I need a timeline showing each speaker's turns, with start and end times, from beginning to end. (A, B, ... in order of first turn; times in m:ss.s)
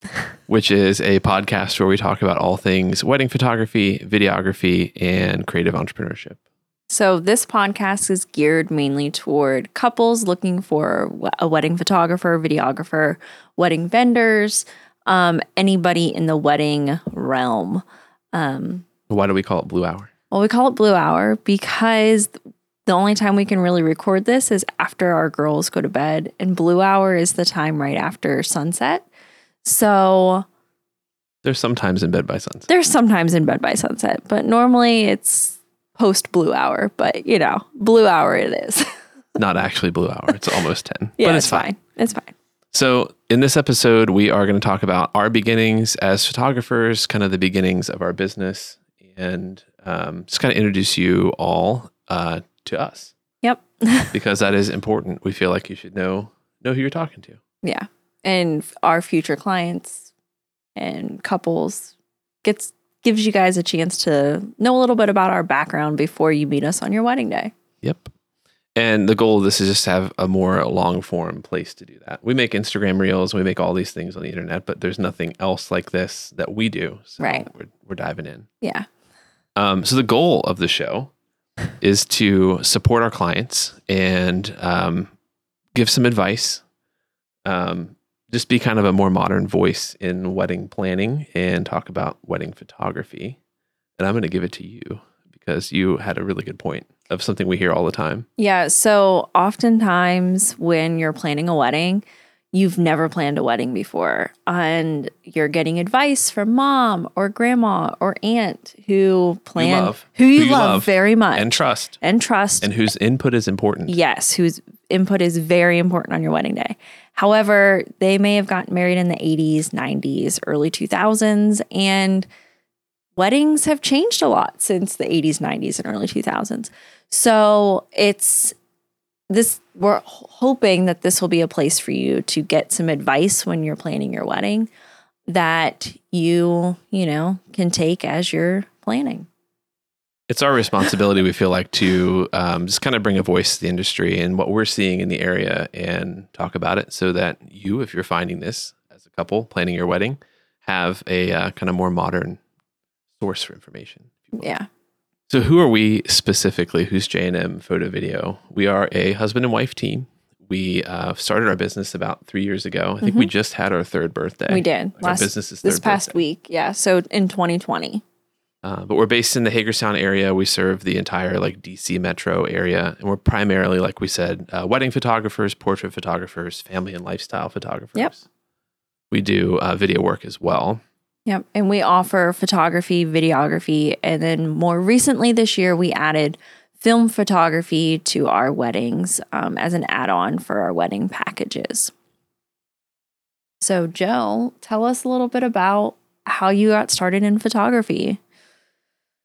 0:00.5-0:06.4 A
0:06.9-0:18.8 B
0:19.1-0:20.1 A
0:20.3-0:22.3 B
0:22.9-0:29.0 B
0:29.6-0:30.5 B
0:31.4-0:32.7 A
0:32.7-0:38.9 B
0:39.4-0:41.7 A
0:41.2-0:42.3 B
0:42.7-0:53.1 A
0:53.4-0:54.1 B
0:54.1-0:57.4 A
0:57.6-1:00.1 B
1:00.8-1:07.5 B
1:07.8-1:08.1 A
1:08.8-1:18.5 A
1:17.2-1:17.5 B
1:18.6-1:18.9 B
1:19.6-1:21.1 A
1:21.8-1:25.1 A
1:25.7-1:26.6 A
1:27.4-1:33.4 A
1:34.0-1:38.3 A
1:38.4-1:52.7 B
1:49.6-1:52.0 A
1:52.6-1:54.0 A
1:53.9-2:02.3 B
2:03.2-2:08.6 B
2:09.3-2:14.7 B
2:15.3-2:19.3 B
2:20.3-2:32.4 A
2:33.2-2:34.5 A
2:34.4-2:34.7 B
2:35.3-2:46.2 A
2:43.0-2:43.3 B
2:44.5-2:48.0 B
2:48.6-2:58.2 A
2:59.1-3:00.8 A
3:01.2-3:11.9 B
3:13.6-3:18.2 B